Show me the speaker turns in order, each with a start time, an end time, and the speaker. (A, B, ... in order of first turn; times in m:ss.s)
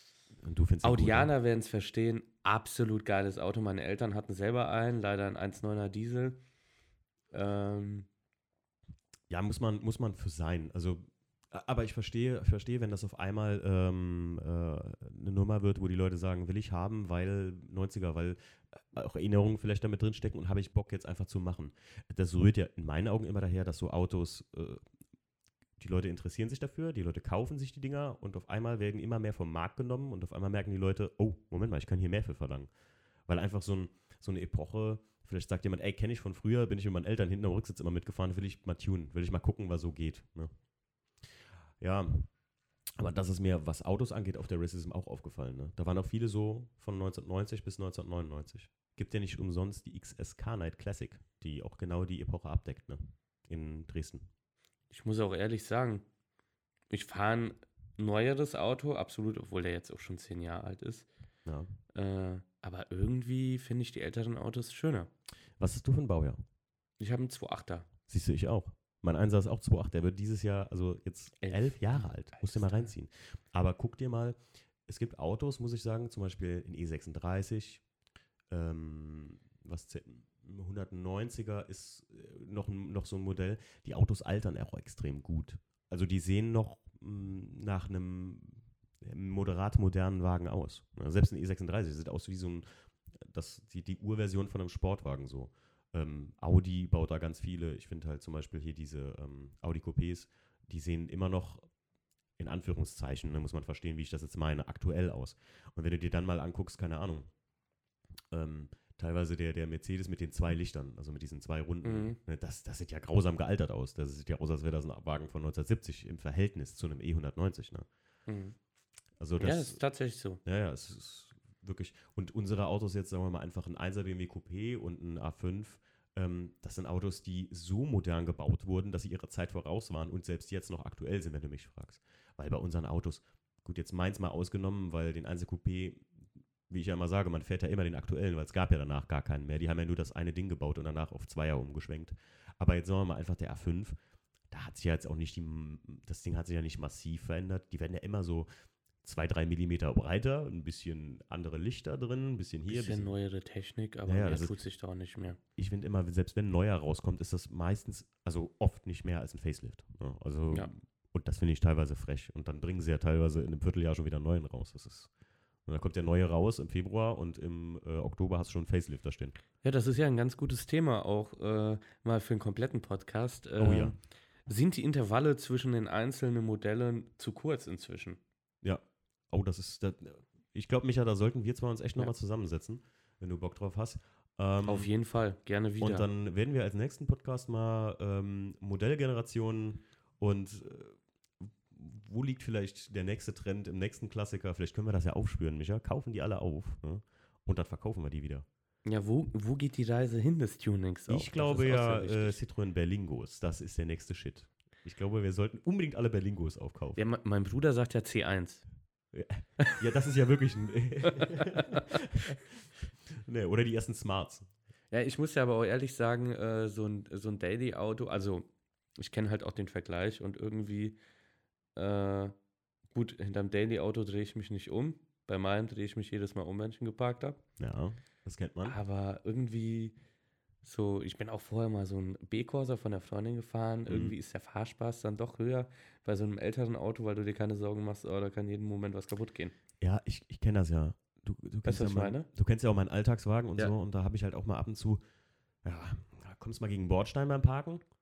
0:00.4-0:01.3 A
0:00.8-0:06.4 B
0:07.3-0:08.1 B
0:09.3-0:24.8 A
0:25.8-0:32.7 A
0:33.3-0:40.5 A
0:41.8-0:42.3 A
0:43.0-0:54.3 A
0:54.9-0:56.0 B
0:56.9-1:01.1 B
1:01.4-1:01.7 A
1:01.9-1:05.1 B
1:05.6-1:06.4 A
1:07.0-1:07.9 B
1:08.1-1:17.8 A
1:11.4-1:12.9 B
1:18.5-1:41.7 A
1:42.4-1:47.3 A
1:48.3-1:57.9 A
1:51.8-1:52.2 B
1:58.3-1:58.5 B
1:59.2-1:59.8 A
1:59.4-2:00.4 B
2:00.4-2:16.1 A
2:16.7-2:24.0 A
2:24.5-2:28.5 A
2:29.0-2:33.1 A
2:32.7-2:35.4 B
2:34.0-2:34.6 A
2:35.6-2:45.1 A
2:45.6-2:49.4 A
2:49.6-2:54.0 B
2:53.6-2:54.0 A
2:54.5-2:58.2 B
2:58.6-3:04.9 A
3:04.6-3:06.1 B
3:05.8-3:18.4 A
3:18.8-3:22.4 B
3:21.1-3:27.0 A
3:27.0-3:28.6 B
3:29.1-3:34.5 A
3:31.0-3:31.9 B
3:34.9-3:41.0 B
3:41.7-3:42.3 B
3:42.9-3:47.4 B
3:47.6-3:48.8 A
3:48.6-3:50.0 B
3:50.6-3:59.5 B
3:53.9-3:54.1 A
3:59.8-4:05.0 A
4:01.6-4:02.3 B
4:05.6-4:07.8 A